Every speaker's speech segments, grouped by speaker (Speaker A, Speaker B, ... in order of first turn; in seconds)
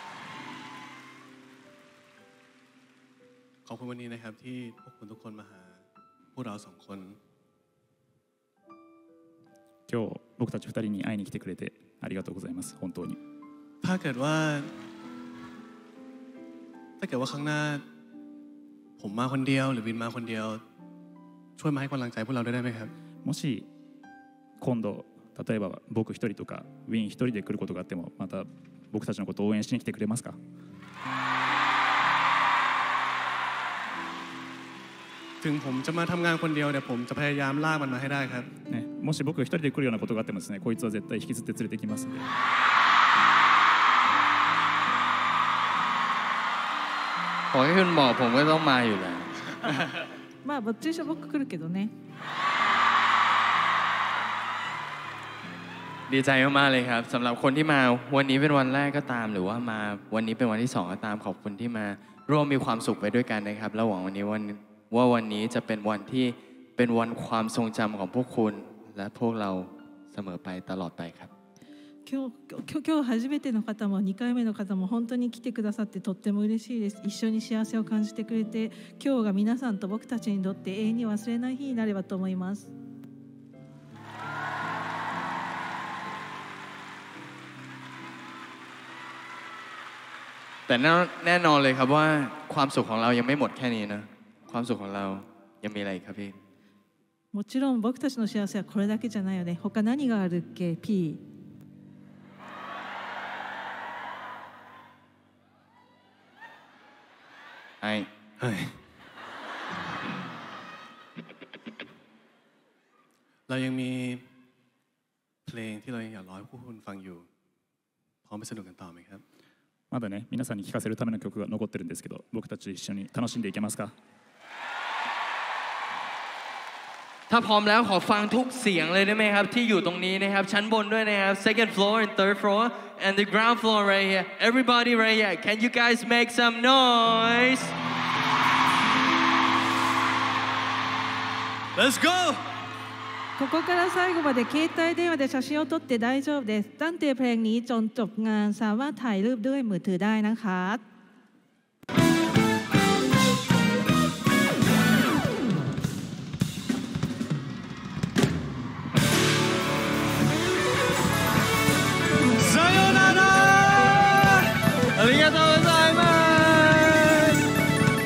Speaker A: 3.6-5.8, 6.3-7.2, 13.8-14.7, 17.0-17.8, 19.0-20.6, 21.6-22.9, 35.4-38.5, 108.4-108.8, 113.5-114.2, 115.5-117.3, 118.2-119.2, 141.8-142.4, 162.3-164.4
Speaker B: 9.9-13.2, 23.2-23.7, 24.6-30.4, 38.7-42.3, 119.9-123.9
Speaker C: 47.5-50.1, 56.1-71.3, 90.7-96.3, 107.8-108.1, 127.3-137.7, 165.0-167.3
Speaker D: 50.4-51.9, 72.0-82.7, 97.3-101.2, 143.4-150.8